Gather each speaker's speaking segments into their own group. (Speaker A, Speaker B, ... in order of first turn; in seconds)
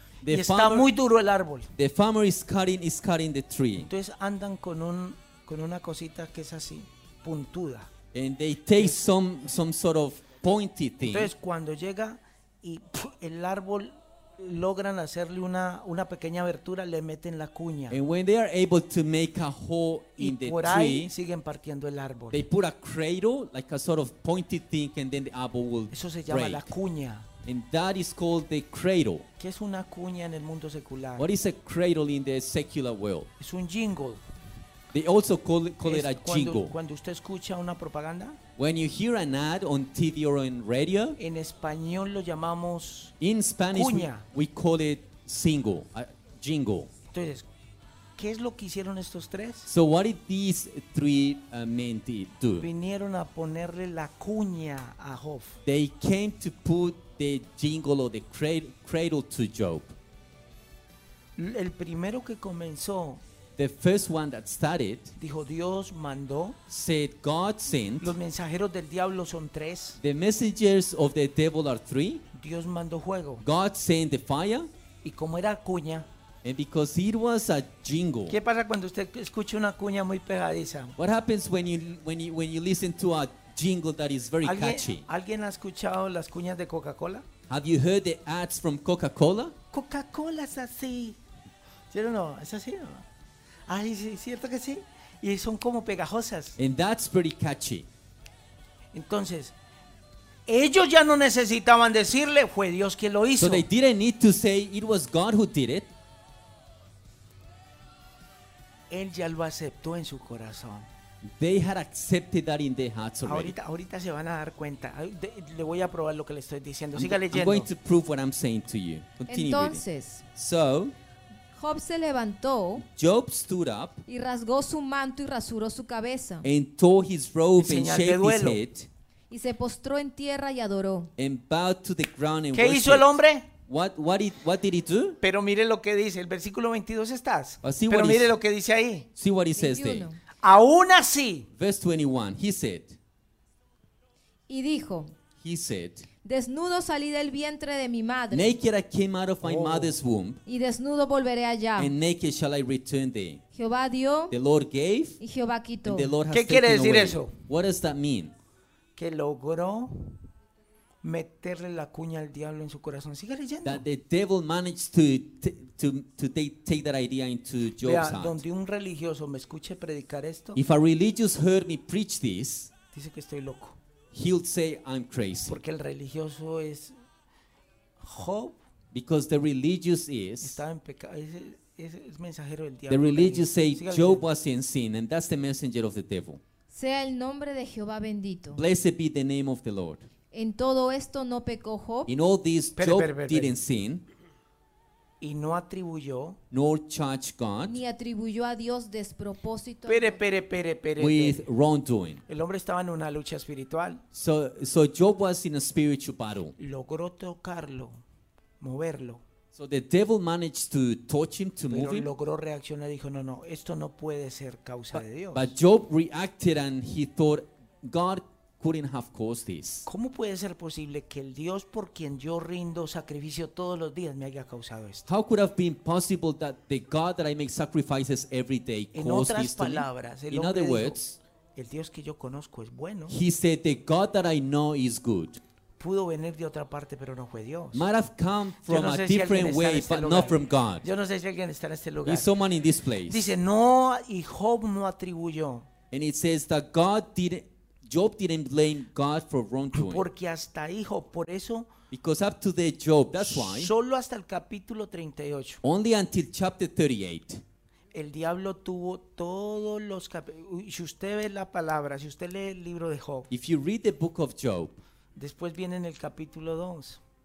Speaker A: 0.2-0.9, 1.8-3.9, 8.1-11.3, 17.9-21.1, 22.3-26.7, 27.4-29.3, 31.2-33.3, 34.9-36.7, 38.6-41.2, 43.2-46.9, 49.6-52.7, 55.6-59.9, 63.5-65.2, 66.7-68.2, 70.0-72.2, 73.4-74.7, 76.4-78.4, 81.0-85.0, 87.5-89.5, 96.6-97.9, 103.4-105.9, 111.2-113.5, 116.9-119.8, 120.3-120.9, 122.8-124.0, 126.4-128.9, 131.2-135.2, 137.6-138.3, 139.2-140.1, 141.5-143.0, 145.4-146.1, 148.3-150.4, 151.8-153.4, 154.3-155.2, 155.8-158.3, 163.6-168.4, 170.5-172.7, 174.1-175.6, 178.9-180.6, 182.9-186.4, 188.5-190.1, 192.1-194.0, 196.5-197.8, 201.0-202.2, 204.1-206.5, 209.5-212.1, 214.9-219.9, 225.1-231.2, 233.1-235.4, 237.7-240.8, 242.0-243.3, 245.9-250.1, 251.9-253.7, 255.6-257.4, 263.3-264.8
Speaker B: 0.3-1.7, 3.8-7.9, 8.8-9.1, 11.0-18.0, 20.2-22.4, 25.9-27.3, 29.4-31.3, 33.4-34.2, 35.8-38.4, 41.2-43.1, 43.7-44.2, 47.1-47.5, 48.2-49.7, 52.6-55.6, 61.4-63.2, 65.2-66.6, 68.0-70.0, 72.3-73.4, 75.0-76.1, 78.3-81.0, 84.4-87.2, 89.7-91.2, 91.9-93.0, 93.7-96.6, 98.9-99.5, 100.5-103.7, 108.9-110.9, 113.2-117.7, 127.6-128.6, 132.5-133.5, 135.2-139.1, 140.4-141.5, 149.4-149.9, 156.3-157.4, 158.9-160.2, 161.0-163.8, 167.8-170.6, 172.9-173.8, 175.4-176.9, 178.0-178.6, 180.4-184.2, 192.8-193.6, 195.2-196.4, 199.8-201.4, 202.3-204.0, 206.6-208.0, 208.6-209.2, 211.7-215.5, 219.8-225.1, 228.9-231.0, 231.5-233.2, 235.8-237.9, 238.6-242.3, 243.1-245.7, 249.7-251.7, 253.2-255.6, 257.9-263.3, 265.1-267.0
Speaker C: 119.3-120.2, 121.5-122.8, 124.1-126.5, 129.3-131.1, 139.6-140.2, 144.5-145.1, 146.2-148.5, 150.4-151.9, 153.5-154.3, 155.2-156.1, 186.7-188.6, 190.3-192.1, 197.6-200.2